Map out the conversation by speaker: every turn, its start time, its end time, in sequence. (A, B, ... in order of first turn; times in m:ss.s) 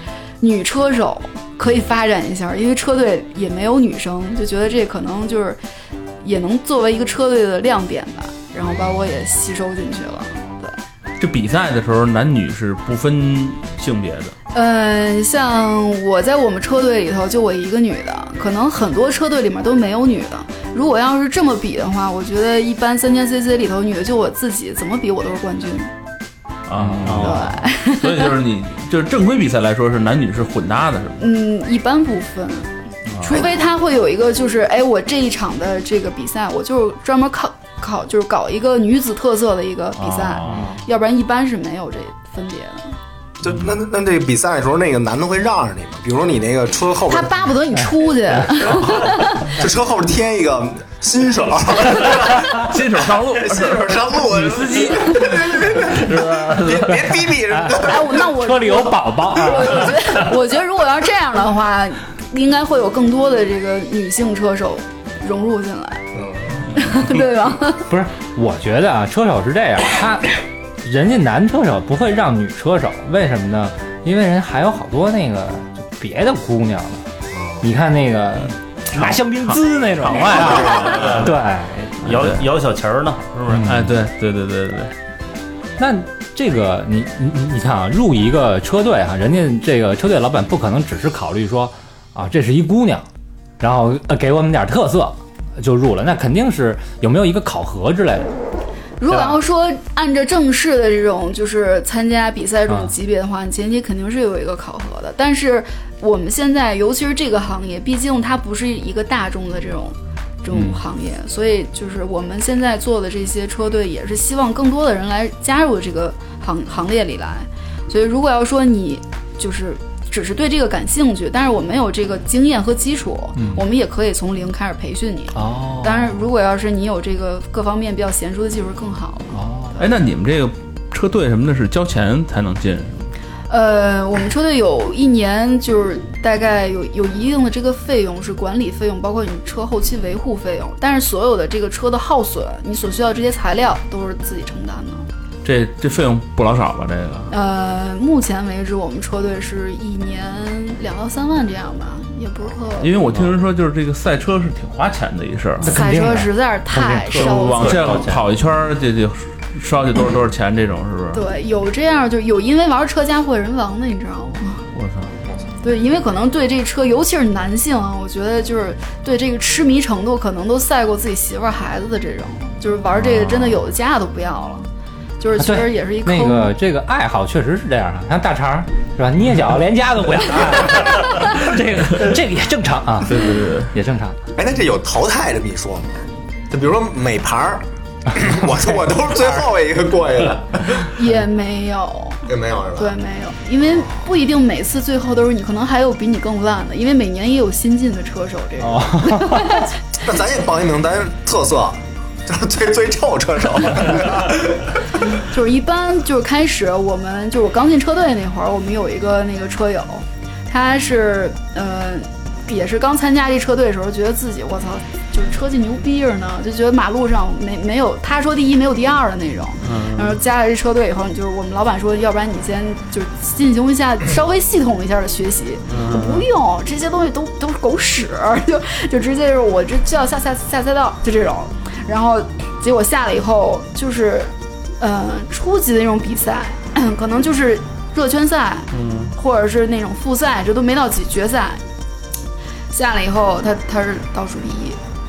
0:00.4-0:05.6 A
0:06.2-0:10.8 A
0:11.2-0:14.4 B
0:14.5-0:25.9 A
0:26.7-0:31.2 B
0:26.8-0:27.2 C
0:27.0-0:27.5 D
0:27.2-0:28.3 A
0:31.2-0:43.0 A
0:33.1-0:33.5 B
0:40.0-0:40.8 B
0:43.4-0:47.4 E
0:47.1-0:49.6 A
0:48.6-0:58.2 E
0:52.0-0:57.0 B
0:57.5-1:00.4 C
0:57.7-1:06.0 A
1:06.2-1:06.6 E
1:06.7-1:07.9 A
1:07.9-1:17.1 C
1:17.4-1:17.6 E
1:17.6-1:22.1 C
1:19.0-1:21.3 B
1:20.4-1:21.4 D
1:22.0-1:23.8 D
1:22.1-1:22.4 B
1:23.5-1:23.9 C
1:23.6-1:24.9 B
1:25.8-1:33.1 C
1:33.6-1:38.4 C
1:39.0-2:09.9 A
1:39.1-1:39.4 C
1:50.5-1:50.8 C
2:03.4-2:03.6 C
2:05.4-2:06.3 C
2:09.3-2:09.8 C
2:09.8-2:13.1 B
2:13.5-2:25.1 A
2:25.4-2:27.3 B
2:27.3-2:33.0 A
2:32.8-2:35.8 B
2:35.6-2:37.5 C
2:35.6-2:38.0 A
2:37.1-2:41.2 B
2:37.6-2:38.2 D
2:41.1-2:44.7 A
2:44.8-2:45.1 B
2:45.6-2:54.7 A
2:55.2-2:56.5 A
2:55.4-3:04.2 C
3:03.1-3:03.7 B
3:04.4-3:11.0 E
3:10.9-3:19.7 A
3:12.3-3:13.0 E
3:18.6-3:19.7 C
3:20.0-3:24.7 E
3:25.1-4:01.6 A
3:39.6-3:40.2 B
3:45.7-3:46.2 B
3:58.7-3:59.1 B
4:02.7-4:04.8 A